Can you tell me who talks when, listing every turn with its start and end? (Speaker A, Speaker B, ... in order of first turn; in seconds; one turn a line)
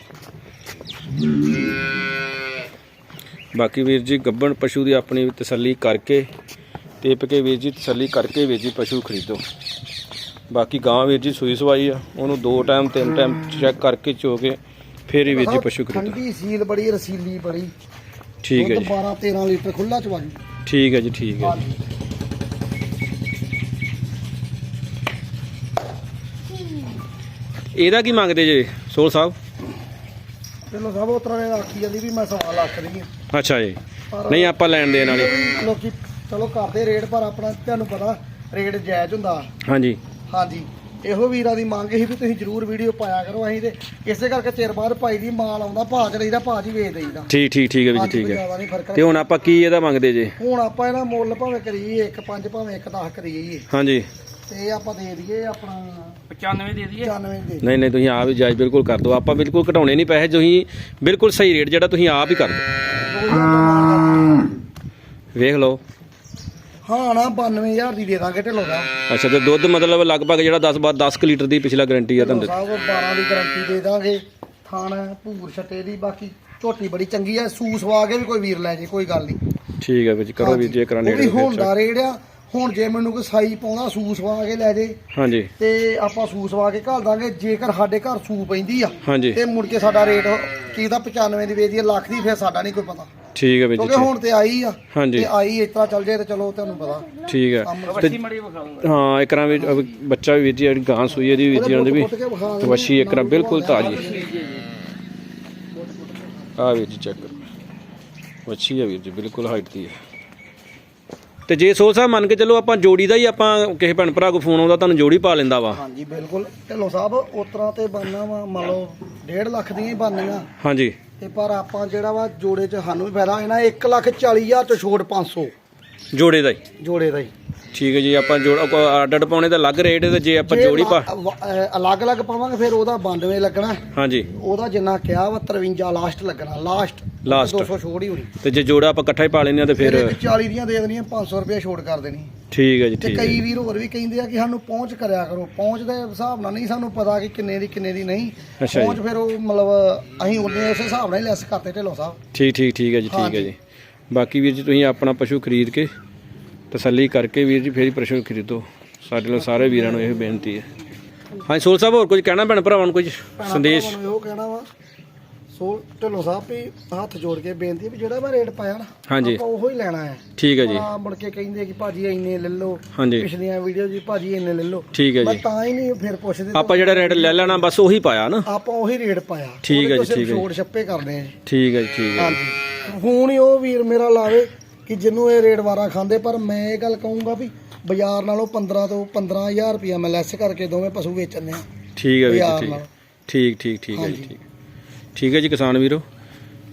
Speaker A: 3.5-6.3
Speaker A: 7.0-9.4
Speaker A: 10.5-16.2
Speaker B: 15.3-17.7
Speaker A: 18.4-18.9
Speaker B: 18.6-20.4
Speaker A: 20.6-21.6
Speaker B: 21.4-21.8
Speaker A: 27.7-29.3
Speaker B: 30.7-33.1
Speaker A: 33.3-35.3
Speaker B: 34.1-39.5
Speaker A: 39.6-40.0
Speaker B: 40.3-47.3
Speaker A: 47.3-48.4
Speaker B: 47.9-49.3
Speaker A: 48.9-50.4
Speaker B: 50.4-53.6
Speaker A: 53.7-54.1
Speaker B: 54.5-56.2
Speaker C: 56.3-57.1
Speaker B: 56.9-57.6
Speaker A: 57.6-62.6
Speaker B: 63.0-64.5
Speaker A: 65.3-65.8
Speaker B: 66.8-68.9
Speaker A: 69.1-72.5
Speaker B: 72.2-79.4
Speaker A: 79.8-81.7
Speaker B: 80.4-85.0
Speaker A: 85.1-85.5
Speaker B: 85.6-93.1
Speaker A: 89.0-89.4
Speaker A: 93.3-94.1
Speaker B: 93.8-97.1
Speaker A: 94.9-95.3
Speaker A: 97.3-98.2
Speaker B: 97.6-98.2
Speaker C: 97.8-98.8
Speaker A: 98.8-104.1
Speaker B: 101.5-104.4
Speaker C: 103.8-104.7
Speaker B: 105.7-106.6
Speaker A: 106.6-107.3
Speaker A: 108.5-110.0
Speaker A: 111.5-115.8
Speaker B: 115.7-120.5
Speaker A: 120.6-121.0
Speaker B: 121.2-125.5
Speaker A: 126.1-126.6
Speaker B: 126.8-127.3
Speaker A: 127.7-131.1
Speaker B: 130.5-138.3
Speaker A: 133.9-134.3
Speaker A: 137.2-137.7
Speaker A: 138.4-140.2
Speaker B: 139.8-142.3
Speaker A: 142.5-143.4
Speaker B: 143.0-152.2
Speaker A: 148.6-149.0
Speaker A: 152.3-153.6
Speaker B: 153.1-153.5
Speaker A: 154.1-155.9
Speaker A: 156.7-160.7
Speaker B: 159.3-160.5
Speaker A: 161.4-164.0
Speaker B: 163.4-164.7
Speaker B: 165.5-177.7
Speaker A: 169.1-169.4
Speaker A: 170.4-170.8
Speaker A: 172.9-173.3
Speaker A: 174.9-175.4
Speaker A: 176.5-178.5
Speaker B: 178.4-181.3
Speaker A: 179.6-180.4
Speaker A: 181.4-182.4
Speaker B: 182.2-191.7
Speaker A: 191.9-194.4
Speaker B: 192.2-192.9
Speaker B: 193.9-194.3
Speaker A: 195.1-196.0